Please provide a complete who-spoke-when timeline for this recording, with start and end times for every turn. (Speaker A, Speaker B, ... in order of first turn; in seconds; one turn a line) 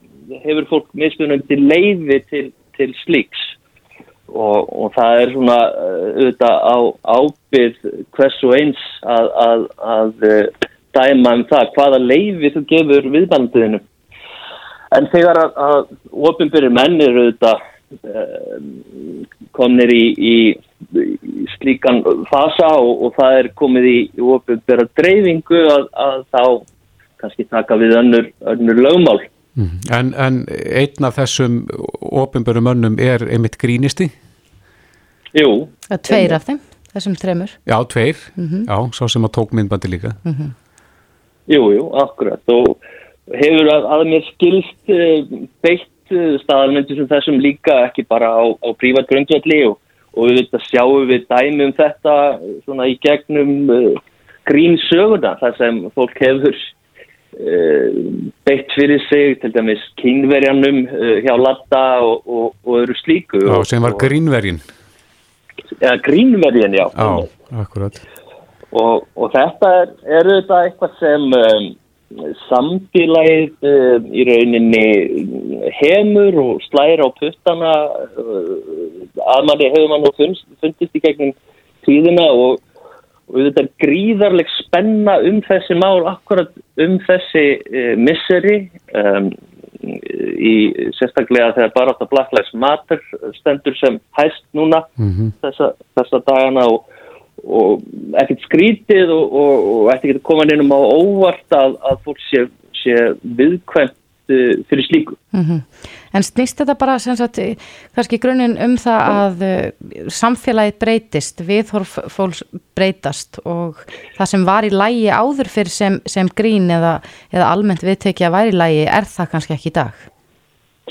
Speaker A: 0.3-3.5
Speaker A: 4.3-13.8
Speaker A: 14.9-26.6
Speaker A: 27.2-29.3
Speaker B: 29.6-34.1
Speaker A: 35.3-36.4
Speaker C: 35.9-37.6
Speaker B: 37.6-40.2
Speaker C: 38.4-38.7
Speaker C: 40.2-40.5
Speaker A: 41.5-42.8
Speaker A: 43.3-56.7
Speaker A: 57.4-64.1
Speaker B: 63.5-64.6
Speaker A: 65.8-67.3
Speaker B: 66.9-68.0
Speaker A: 68.7-82.6
Speaker A: 83.3-94.9
Speaker B: 95.0-95.3
Speaker A: 95.4-96.8
Speaker A: 97.4-105.2
Speaker C: 105.3-120.0